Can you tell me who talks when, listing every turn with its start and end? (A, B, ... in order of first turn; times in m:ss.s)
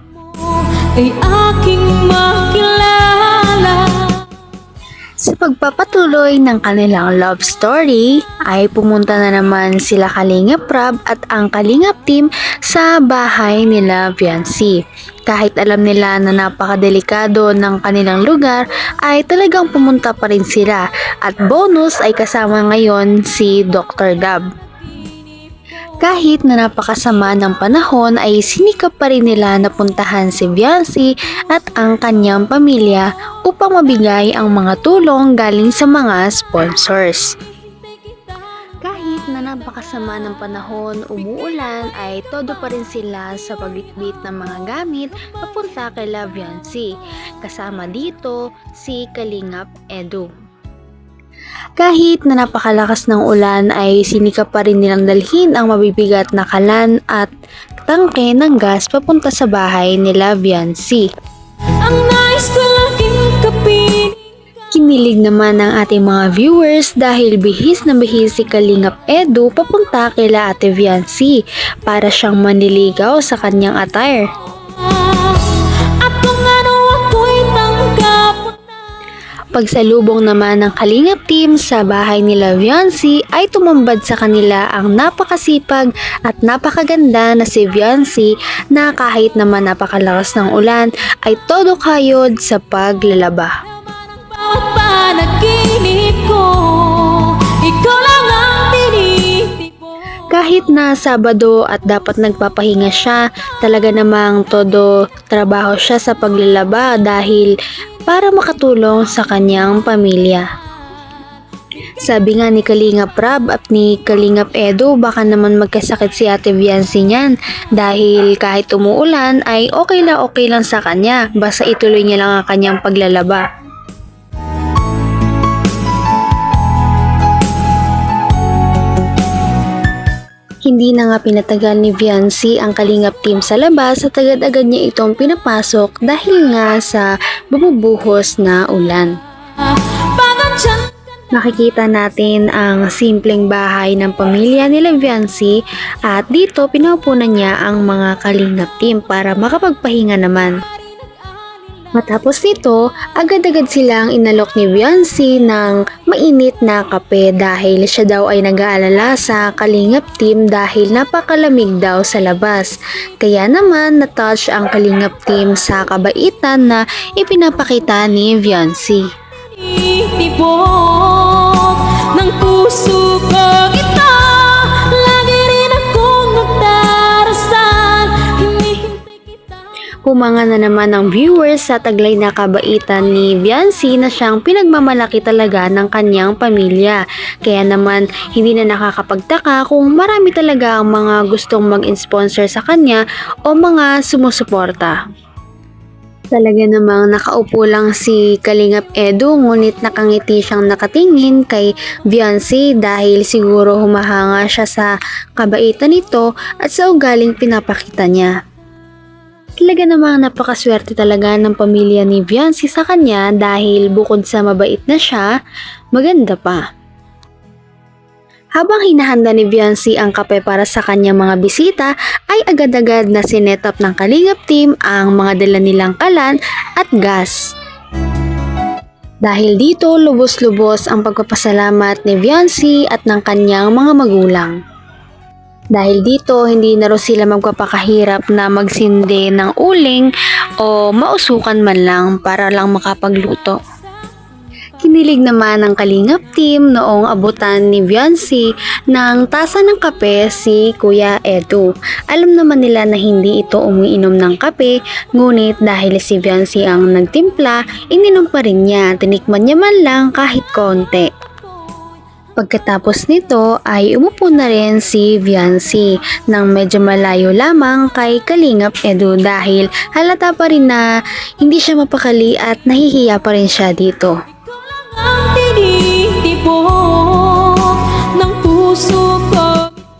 0:00.4-0:04.2 A
0:05.2-0:24.4 B
0:26.0-0:37.4 B
0:38.8-0:46.9 B
0:47.4-0:50.3 B
0:51.8-0:57.3 B
0:57.9-1:01.1 B
1:01.8-1:04.2 A
1:04.7-1:14.3 B
1:14.8-1:18.7 A
1:19.5-1:33.5 B
1:34.2-1:39.8 A
1:40.3-1:47.5 B
1:48.1-1:50.5 B
1:52.0-2:03.4 B
2:10.6-2:19.1 B
2:19.8-2:20.9 A
2:21.3-2:30.6 B
2:32.0-2:49.0 B
2:49.6-2:59.5 A
3:00.1-3:15.0 B
3:16.3-3:28.3 B
3:29.6-3:35.3 B
3:36.0-3:36.6 B
3:38.6-3:47.5 B
3:49.2-3:54.6 B
3:55.8-4:00.1 B
4:00.6-4:03.6 B
4:04.8-4:21.1 B
4:22.4-4:30.8 B
4:31.4-4:34.2 B
4:34.7-4:39.7 A